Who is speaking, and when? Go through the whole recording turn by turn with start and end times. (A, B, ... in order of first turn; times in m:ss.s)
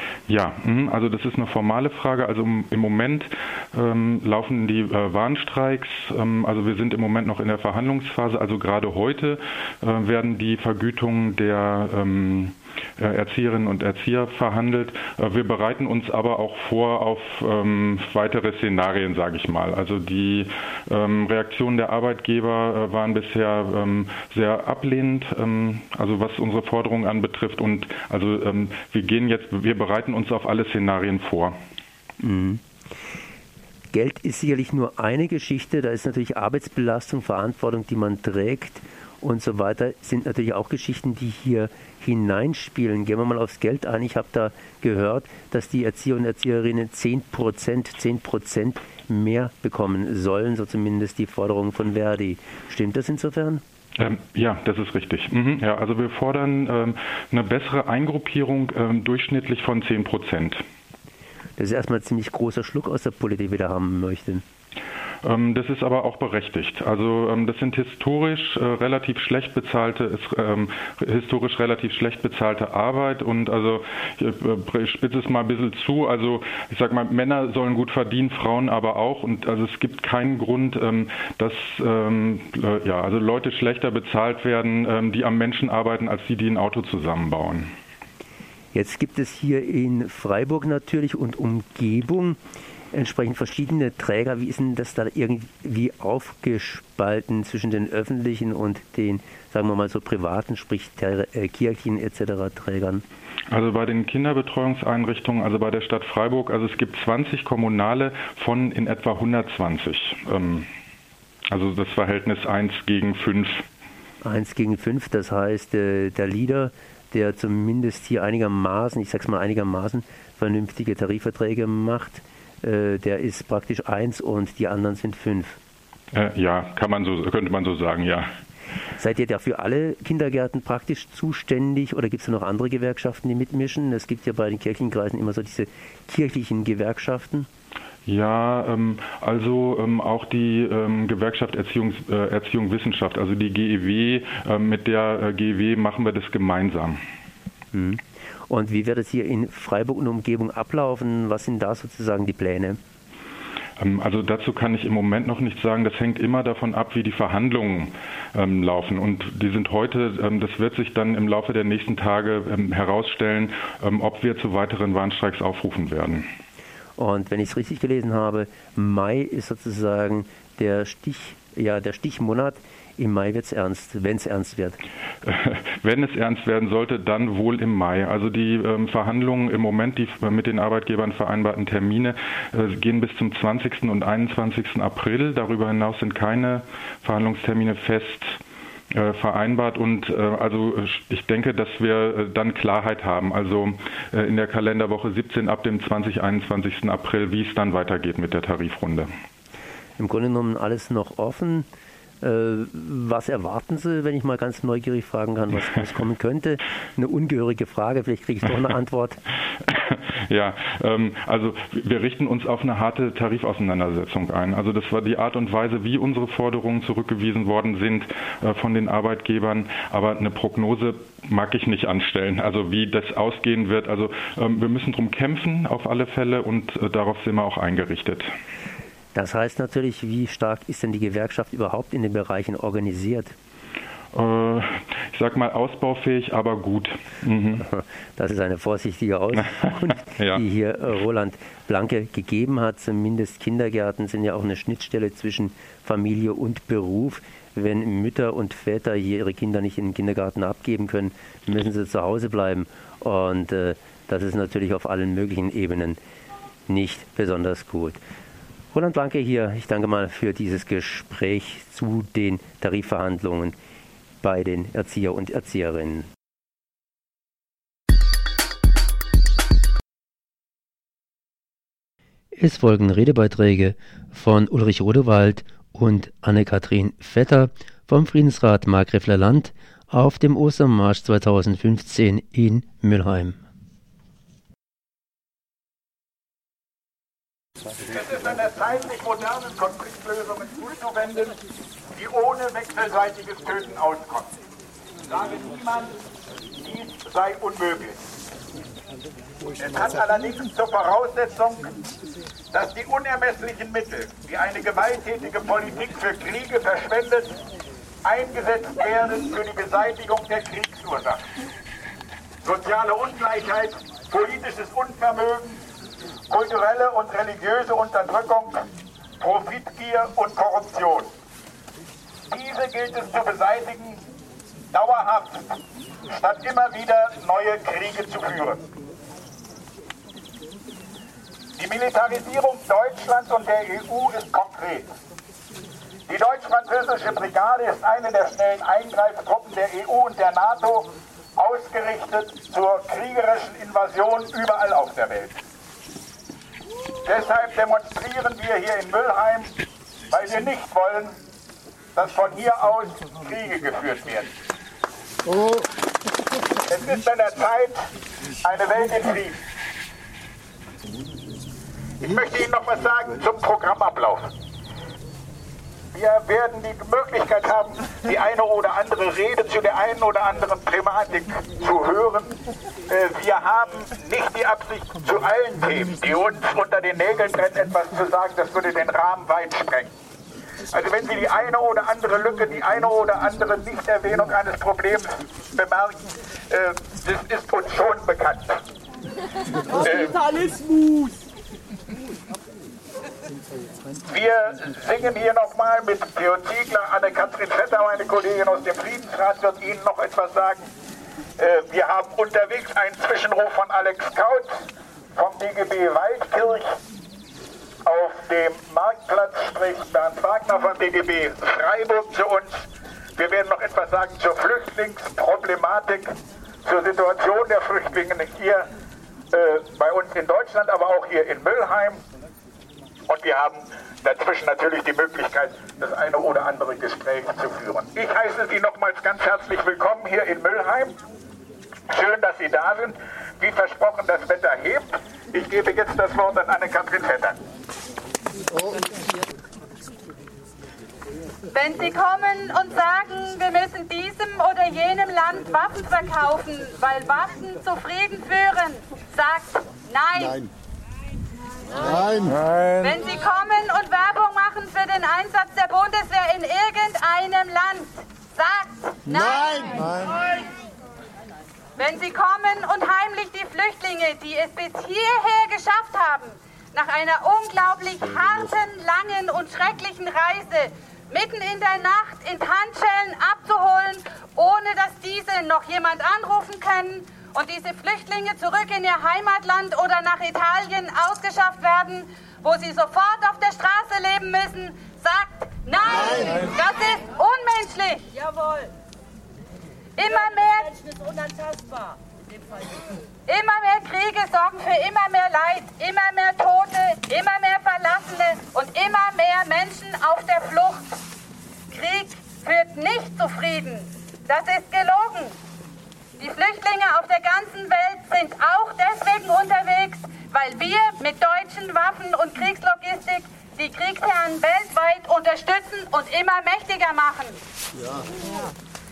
0:00.3-0:31.6 A
0:32.2-0:32.6 B
0:33.9-0:53.6 B
0:54.0-1:00.6 A
1:01.6-1:04.4 B
1:05.2-1:27.7 A
1:28.7-1:32.4 B
1:32.9-1:43.0 B
1:43.5-1:50.7 A
1:51.5-1:53.6 A
1:54.2-2:05.6 B
2:06.1-2:08.3 A
2:09.0-2:17.5 B
2:18.1-2:27.0 A
2:27.7-2:32.8 B
2:33.8-2:46.3 A
2:47.0-2:54.8 B
2:55.2-3:08.4 A
3:08.9-3:19.1 A
3:20.0-3:21.7 B
3:22.2-3:29.2 B
3:29.7-3:48.3 A
3:49.1-3:53.3 B
3:54.1-3:57.6 A
3:57.7-4:16.0 B
4:00.2-4:00.4 A
4:16.7-4:18.0 B
4:18.7-4:23.6 B
4:24.2-4:26.1 B
4:32.4-4:43.4 B
4:47.9-4:51.4 C
4:51.9-4:54.3 C
4:55.1-4:55.9 C
4:56.6-4:58.0 C
4:59.6-5:01.7 C
5:02.5-5:07.3 C
5:08.0-5:11.2 C
5:12.4-5:15.6 C
5:16.3-5:18.6 C
5:19.2-5:21.1 C
5:22.3-5:24.0 C
5:24.7-5:28.6 C
5:31.6-5:34.9 C
5:36.1-5:45.4 C
5:47.0-5:49.5 C
5:50.1-5:51.1 C
5:51.9-5:54.3 C
5:56.7-5:57.8 C
5:58.4-5:59.4 C
6:02.0-6:04.3 C
6:05.9-6:12.4 C
6:12.9-6:19.9 C
6:20.7-6:28.6 C
6:29.8-6:30.2 C
6:34.1-6:40.6 C
6:41.4-6:44.6 C
6:45.2-6:46.8 C
6:47.9-6:52.7 C
6:53.2-6:56.1 C
6:56.6-6:58.7 C
6:59.3-7:02.0 C
7:03.1-7:10.9 C
7:11.9-7:17.4 C
7:21.5-7:30.5 D
7:31.8-7:40.1 D
7:41.8-8:08.1 D
8:10.0-8:10.8 D
8:13.3-8:20.9 D
8:21.7-8:25.3 D
8:26.2-8:37.4 D